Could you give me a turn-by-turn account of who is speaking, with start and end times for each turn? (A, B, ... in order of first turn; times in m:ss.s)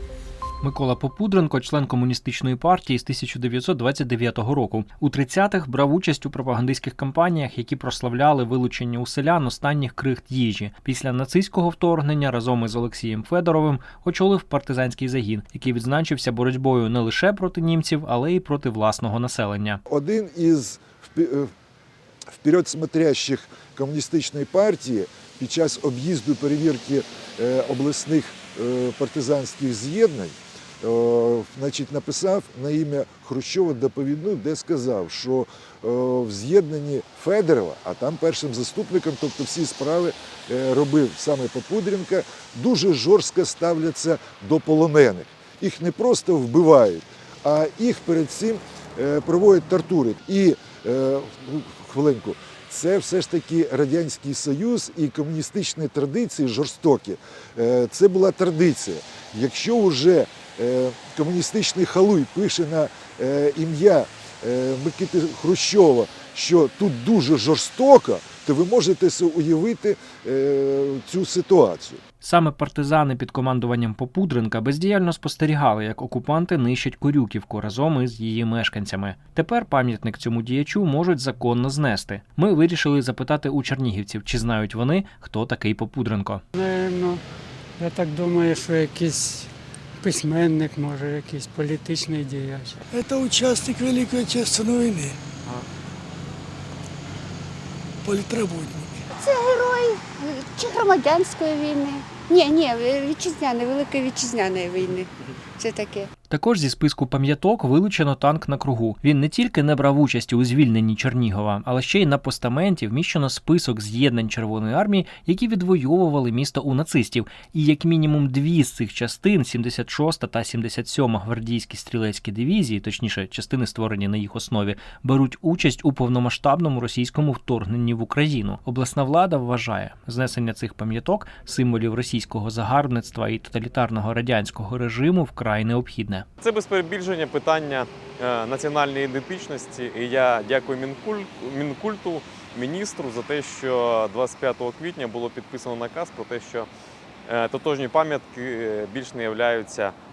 0:00.6-0:19.8 A
0:19.9-0:21.5 B
0:22.3-1:12.0 B
1:12.2-1:26.4 A
1:26.6-1:27.2 C
1:27.8-1:29.5 C
1:30.0-1:32.8 C
1:32.9-1:35.2 D
1:38.0-1:38.9 D
1:39.1-1:46.1 E
1:46.3-2:16.2 A
2:16.4-2:26.7 F
2:27.2-2:29.9 F